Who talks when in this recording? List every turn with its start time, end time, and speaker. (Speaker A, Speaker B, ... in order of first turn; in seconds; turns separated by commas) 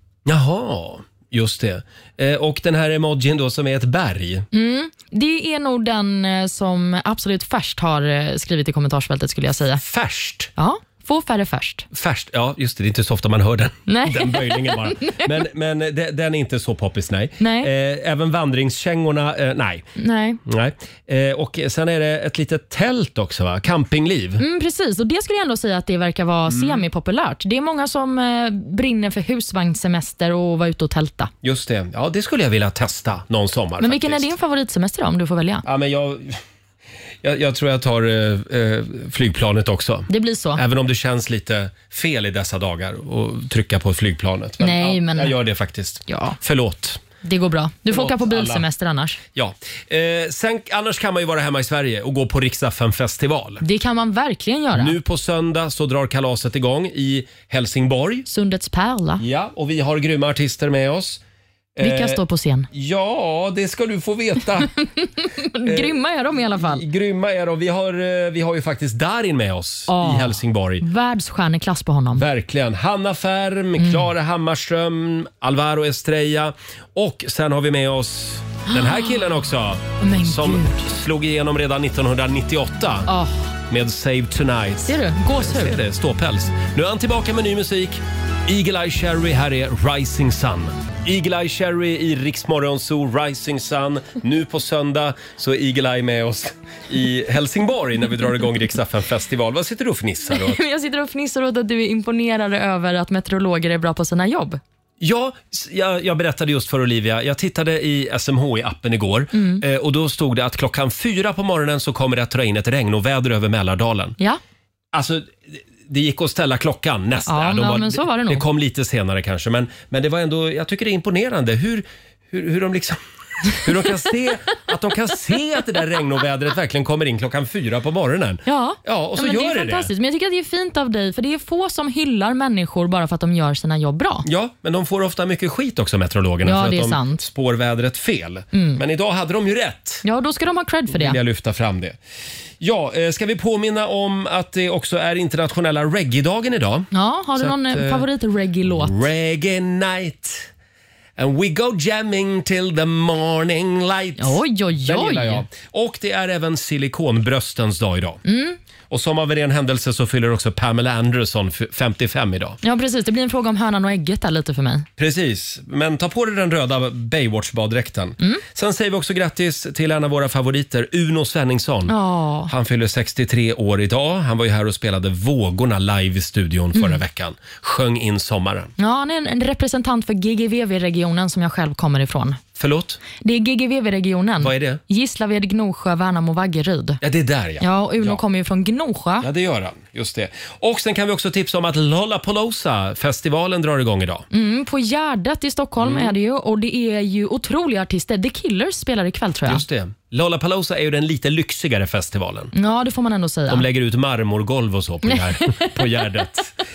Speaker A: 0.3-4.5, Speaker B: 4.5-9.8, Speaker A: 9.8-10.5, Speaker B: 10.6-11.9, Speaker A: 11.9-19.9, Speaker B: 13.9-15.3, Speaker B: 17.4-17.7, Speaker B: 20.0-20.4, Speaker A: 20.4-24.4, Speaker B: 24.4-31.3, Speaker A: 26.5-26.8, Speaker A: 31.4-34.3, Speaker B: 33.8-35.6, Speaker A: 35.6-36.4, Speaker A: 37.2-47.0, Speaker B: 40.1-40.6, Speaker B: 44.6-45.4, Speaker B: 46.1-46.4, Speaker B: 47.2-49.2, Speaker A: 47.9-48.7, Speaker A: 49.4-53.6, Speaker B: 53.6-55.0, Speaker A: 54.7-58.3, Speaker B: 58.3-59.2, Speaker A: 59.2-61.2, Speaker A: 61.8-62.2, Speaker B: 61.8-62.7, Speaker A: 62.7-64.7, Speaker B: 64.8-66.8, Speaker A: 65.6-66.0, Speaker A: 66.5-70.8, Speaker B: 69.9-72.2, Speaker A: 72.1-83.1, Speaker B: 73.8-74.1, Speaker B: 78.7-79.1, Speaker B: 80.0-80.8, Speaker B: 83.1-83.5, Speaker A: 83.7-100.6, Speaker B: 84.8-85.8, Speaker B: 100.3-104.6, Speaker A: 105.0-114.2, Speaker B: 109.3-109.6, Speaker A: 114.9-123.0, Speaker B: 117.3-118.5, Speaker A: 123.5-129.9, Speaker B: 128.5-134.3, Speaker A: 134.2-140.0, Speaker B: 136.4-137.2, Speaker B: 138.5-138.8, Speaker B: 140.0-141.2, Speaker A: 140.9-142.0, Speaker A: 142.6-148.1, Speaker B: 146.9-149.0, Speaker A: 148.7-150.5, Speaker A: 151.2-158.2, Speaker B: 154.2-155.4, Speaker B: 158.2-158.6, Speaker A: 158.9-162.6, Speaker B: 162.6-164.9, Speaker A: 165.0-171.9, Speaker B: 171.9-172.5, Speaker A: 172.5-178.7, Speaker B: 178.8-182.4, Speaker A: 182.6-183.0, Speaker B: 183.2-187.0, Speaker A: 184.4-184.8, Speaker A: 187.0-188.2, Speaker B: 187.6-189.3, Speaker A: 189.2-194.3, Speaker B: 194.3-199.6, Speaker A: 195.8-196.1, Speaker A: 199.5-202.5, Speaker B: 202.5-203.7, Speaker A: 203.5-206.5, Speaker B: 205.1-205.8